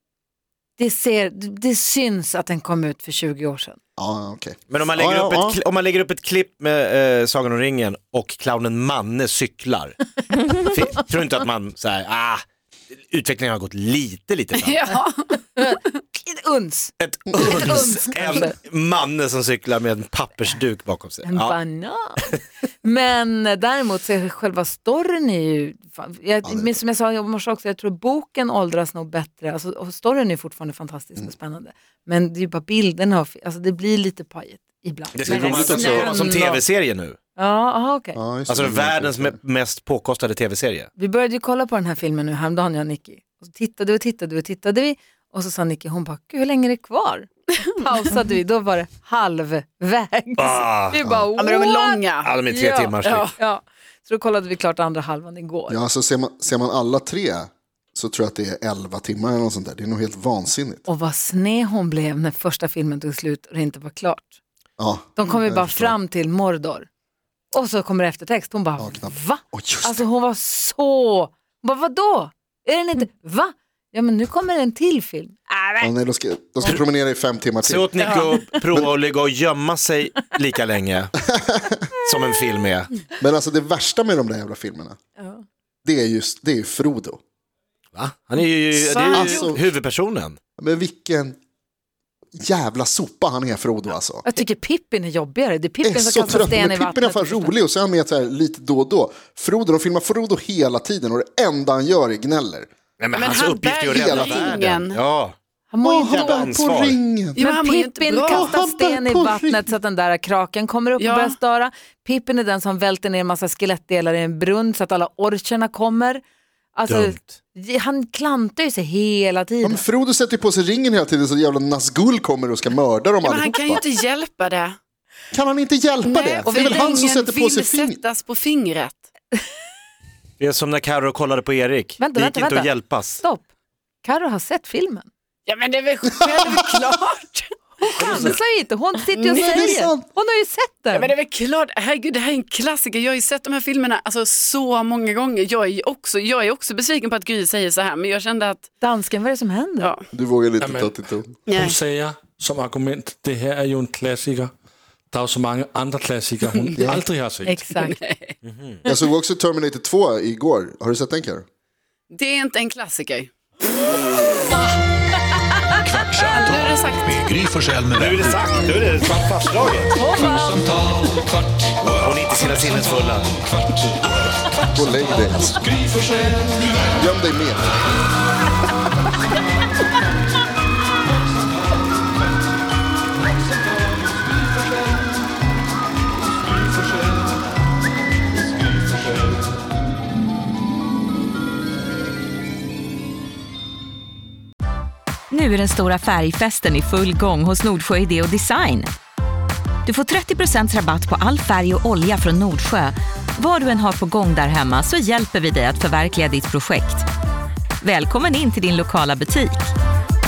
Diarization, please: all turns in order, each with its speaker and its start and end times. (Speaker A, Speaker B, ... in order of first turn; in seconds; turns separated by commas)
Speaker A: 0.8-3.8, Speaker B: 4.0-5.6, Speaker C: 4.7-14.8, Speaker D: 14.6-15.4, Speaker A: 15.6-18.6, Speaker C: 17.0-21.6, Speaker A: 21.2-36.6, Speaker B: 26.4-26.8, Speaker C: 35.1-37.2, Speaker B: 35.2-36.1, Speaker A: 37.4-38.2, Speaker B: 38.1-39.4, Speaker C: 38.5-40.9, Speaker A: 41.0-55.8, Speaker C: 50.4-51.0, Speaker B: 51.0-51.3, Speaker D: 51.4-52.3, Speaker C: 52.2-53.3, Speaker D: 53.0-53.3, Speaker B: 55.7-60.9, Speaker A: 60.9-64.3, Speaker B: 64.8-66.0, Speaker A: 65.2-66.9, Speaker A: 67.5-75.9, Speaker B: 68.8-70.0, Speaker B: 75.8-77.9, Speaker C: 77.6-81.1, Speaker D: 78.0-78.3, Speaker A: 78.3-78.6, Speaker B: 81.2-81.8, Speaker C: 82.0-82.9, Speaker B: 83.2-85.0, Speaker A: 85.2-85.4, Speaker B: 85.8-87.2, Speaker C: 87.9-90.4, Speaker D: 88.7-89.5, Speaker B: 89.1-89.7, Speaker B: 90.6-91.4, Speaker B: 92.4-94.2, Speaker A: 94.2-97.5, Speaker B: 95.8-102.7, Speaker C: 103.0-105.3, Speaker D: 103.1-105.0, Speaker B: 103.9-104.7, Speaker A: 105.7-106.6, Speaker B: 105.8-107.4, Speaker C: 106.0-107.0, Speaker D: 107.3-108.6, Speaker A: 107.4-116.2, Speaker B: 108.3-109.7, Speaker D: 111.0-111.3, Speaker A: 116.7-119.8, Speaker C: 116.9-117.2, Speaker B: 119.6-123.8, Speaker D: 123.2-124.8, Speaker B: 125.3-128.0, Speaker D: 126.0-129.0, Speaker A: 126.4-127.0, Speaker C: 130.4-133.2, Speaker A: 132.0-133.4, Speaker A: 134.0-135.1, Speaker D: 135.5-138.2, Speaker A: 137.8-141.1, Speaker D: 139.1-139.8, Speaker B: 139.3-140.1, Speaker D: 140.9-148.7, Speaker A: 148.8-149.9, Speaker D: 149.8-150.0, Speaker B: 150.1-151.3, Speaker E: 150.6-150.9, Speaker D: 151.5-151.8, Speaker E: 151.5-154.5, Speaker E: 155.1-157.6, Speaker B: 156.8-157.0, Speaker A: 157.4-158.0, Speaker D: 157.8-158.3, Speaker C: 158.4-158.8, Speaker B: 158.8-161.4, Speaker D: 162.1-163.3, Speaker F: 165.8-168.5, Speaker D: 166.3-167.2, Speaker C: 168.0-169.9, Speaker A: 169.9-170.8, Speaker F: 171.8-172.3, Speaker C: 172.0-173.4, Speaker B: 174.7-175.6, Speaker B: 176.9-177.7, Speaker G: 195.3-198.9, Speaker G: 199.8-207.1, Speaker G: 207.8-209.7